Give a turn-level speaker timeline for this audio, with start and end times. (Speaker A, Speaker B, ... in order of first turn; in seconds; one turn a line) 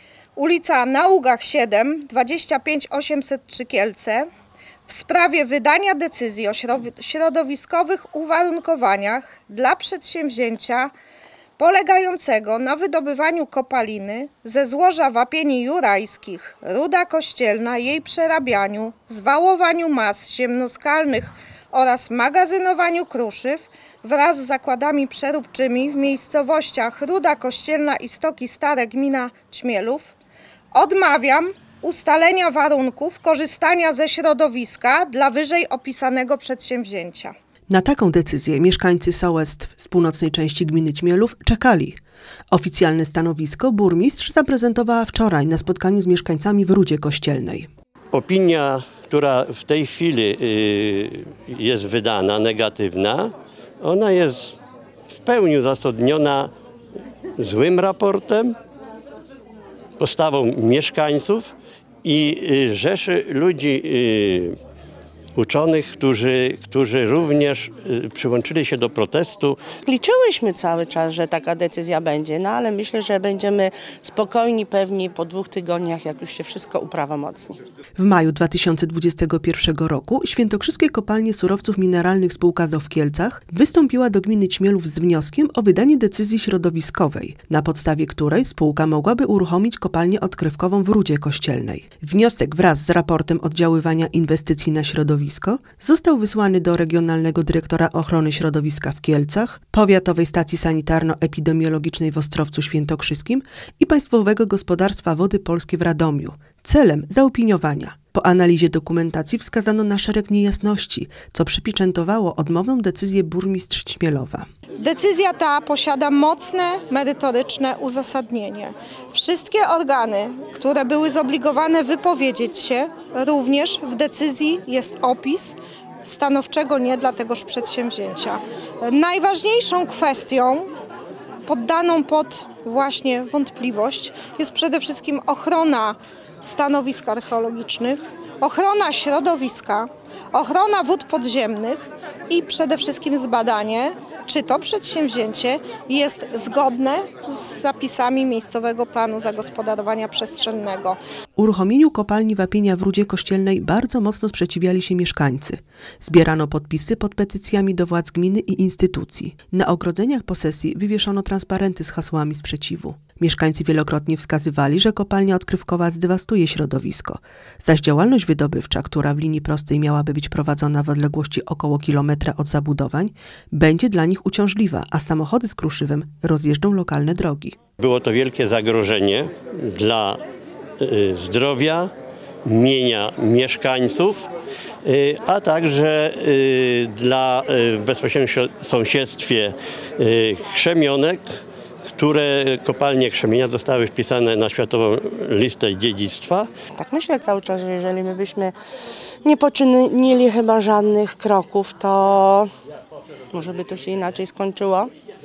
Speaker A: 0.3-4.3
Speaker A: 4.9-10.9
Speaker A: 11.6-30.1
Speaker A: 30.7-37.3
Speaker B: 37.7-42.0
Speaker B: 42.5-47.7
Speaker C: 48.1-54.6
Speaker C: 55.1-56.5
Speaker C: 57.4-58.5
Speaker C: 60.0-61.5
Speaker C: 62.0-64.6
Speaker C: 65.3-69.6
Speaker D: 69.8-77.6
Speaker B: 78.0-114.5
Speaker A: 114.8-130.7
Speaker A: 131.5-151.0
Speaker B: 151.4-177.6
Speaker C: 177.8-180.2
Speaker C: 180.8-181.9
Speaker C: 182.4-184.3
Speaker C: 184.8-191.4
Speaker C: 191.9-196.5
Speaker D: 196.8-198.5
Speaker D: 199.2-202.5
Speaker D: 203.3-204.9